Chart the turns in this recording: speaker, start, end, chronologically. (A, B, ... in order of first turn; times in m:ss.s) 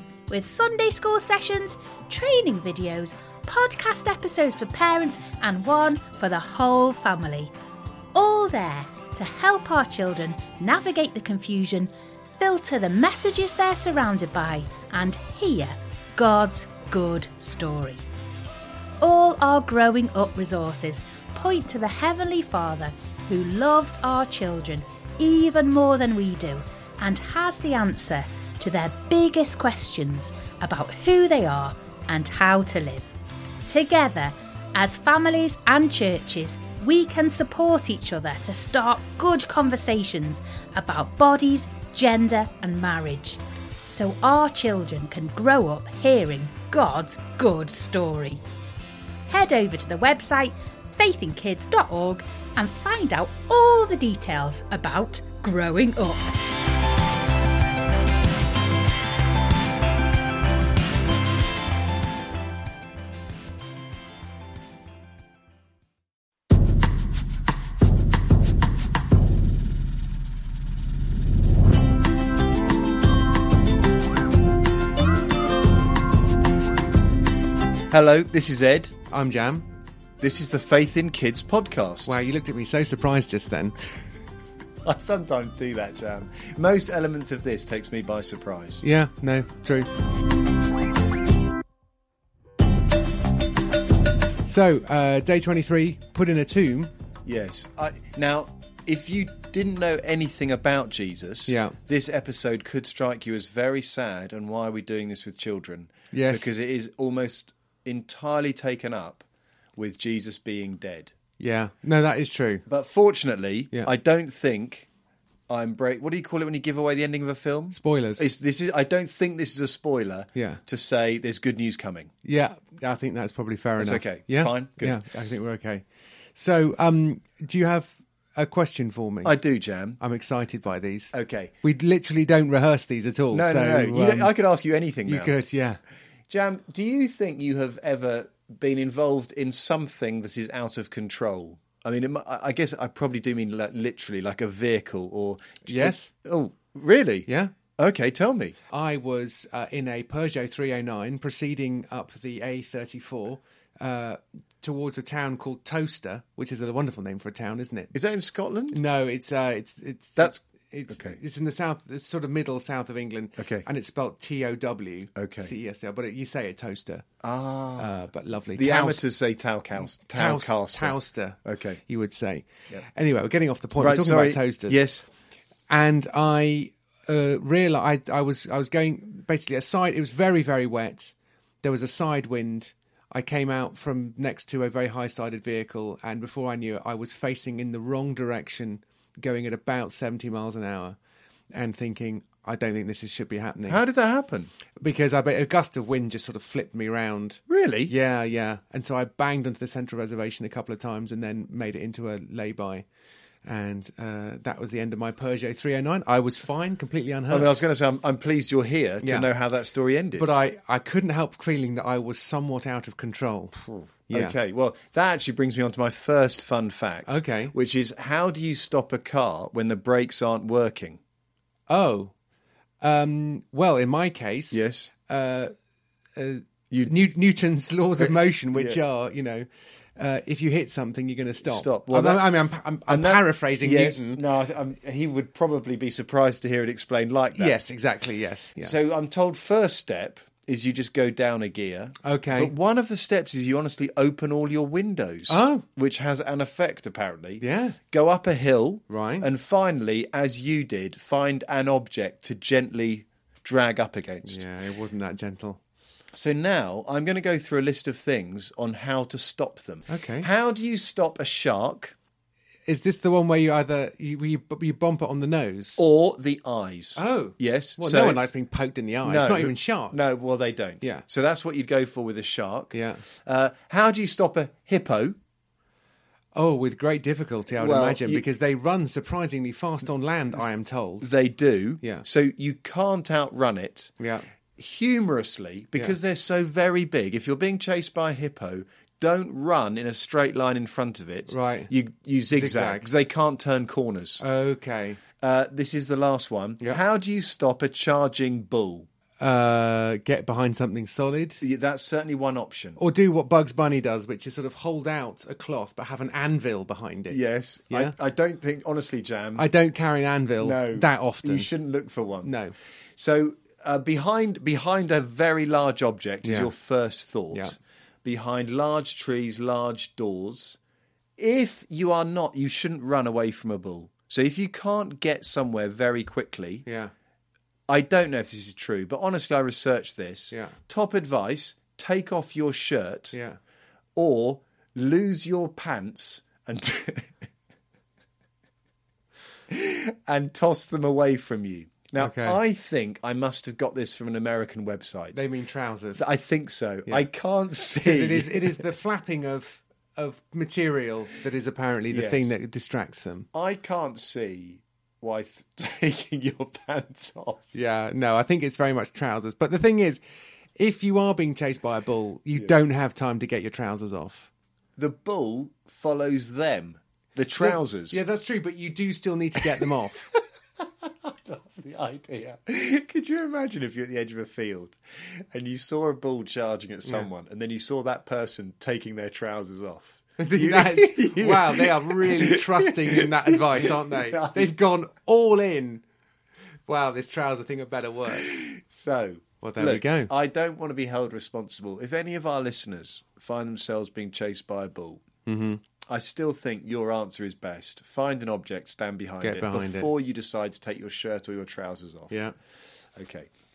0:00.3-0:07.5 A
0:08.2-0:18.0 A
0:19.0-0:33.1 A
0:33.7-0:48.4 A
0:49.3-0:56.3 A
1:17.9-1:18.9 B
1:19.1-1:19.7 C
1:20.2-1:22.2 B
1:22.0-1:23.8 C
1:24.8-1:28.8 B
1:28.8-1:29.9 C
1:34.4-1:36.9 C
1:37.2-1:51.1 B
1:41.5-1:41.8 C
1:46.1-1:46.5 C
1:51.4-1:52.6 C
1:52.7-1:54.9 B
1:55.5-2:02.1 B
1:57.7-1:58.3 C
2:00.4-2:00.6 C
2:02.2-2:09.4 C
2:03.8-2:05.0 B
2:09.2-2:10.0 B
2:10.0-2:14.3 C
2:11.1-2:11.6 B
2:13.3-2:15.4 B
2:15.0-2:15.8 C
2:16.3-2:28.6 B
2:25.7-2:26.1 C
2:27.3-2:27.5 C
2:28.7-2:38.0 C
2:37.9-2:38.8 B
2:38.7-2:47.1 C
2:40.2-2:41.2 B
2:43.4-2:43.7 B
2:45.2-2:45.5 B
2:47.2-2:51.8 B
2:47.8-2:49.1 C
2:49.8-2:54.8 C
2:53.8-2:55.1 B
2:55.7-3:11.0 C
3:11.5-3:13.8 C
3:13.7-3:14.5 B
3:14.8-3:22.9 C
3:17.5-3:17.9 B
3:23.4-3:27.5 C
3:27.3-3:30.3 B
3:29.0-3:29.3 C
3:30.2-3:34.4 C
3:33.6-3:41.0 B
3:37.1-3:37.5 C
3:41.7-3:42.1 C
3:42.8-3:45.5 C
3:44.5-3:44.9 B
3:46.2-3:54.2 C
3:46.7-3:47.1 B
3:48.0-3:48.8 B
3:51.4-3:57.6 B
3:57.3-3:58.8 C
3:58.6-4:14.4 B
4:02.0-4:02.5 C
4:05.3-4:05.7 C
4:07.4-4:07.8 C
4:08.9-4:09.3 C
4:14.2-4:15.6 C
4:16.1-4:22.0 B
4:19.9-4:20.3 C
4:22.7-4:25.8 C
4:25.8-4:28.2 B
4:27.0-4:30.0 C
4:29.0-4:35.2 B
4:32.7-4:33.0 C
4:36.3-4:41.1 C
4:37.5-4:38.2 B
4:41.0-4:43.9 B
4:41.8-4:42.1 C
4:44.0-4:44.3 C
4:44.6-4:54.2 B
4:51.3-4:51.7 C
4:52.3-4:52.9 C
4:54.2-4:55.0 C
4:55.2-4:58.9 B
4:59.2-5:01.4 C
5:01.4-5:02.8 B
5:02.8-5:07.9 C
5:07.1-5:09.5 B
5:09.4-5:11.5 C
5:10.4-5:12.3 B
5:12.2-5:12.6 C
5:13.0-5:20.6 B
5:16.2-5:16.5 C
5:17.3-5:17.6 C
5:21.2-5:26.6 B
5:26.6-5:26.9 C
5:27.7-5:33.2 B
5:30.3-5:30.6 C
5:33.1-5:33.4 C
5:34.0-5:37.2 B
5:39.5-5:45.2 B
5:42.0-5:42.4 C
5:45.1-5:46.1 C
5:46.0-5:48.6 B
5:47.7-5:53.3 C
5:51.9-5:52.3 B
5:53.3-5:57.5 B
5:57.5-6:00.0 C
6:00.6-6:04.3 C
6:04.8-6:08.0 B
6:07.4-6:10.1 C
6:10.9-6:24.6 B
6:20.2-6:25.8 C
6:26.7-6:28.4 C
6:28.2-6:35.0 B
6:29.4-6:30.1 C
6:35.3-6:35.6 C
6:35.9-6:42.2 B
6:39.2-6:39.9 C
6:42.1-6:42.4 C
6:43.0-6:43.3 B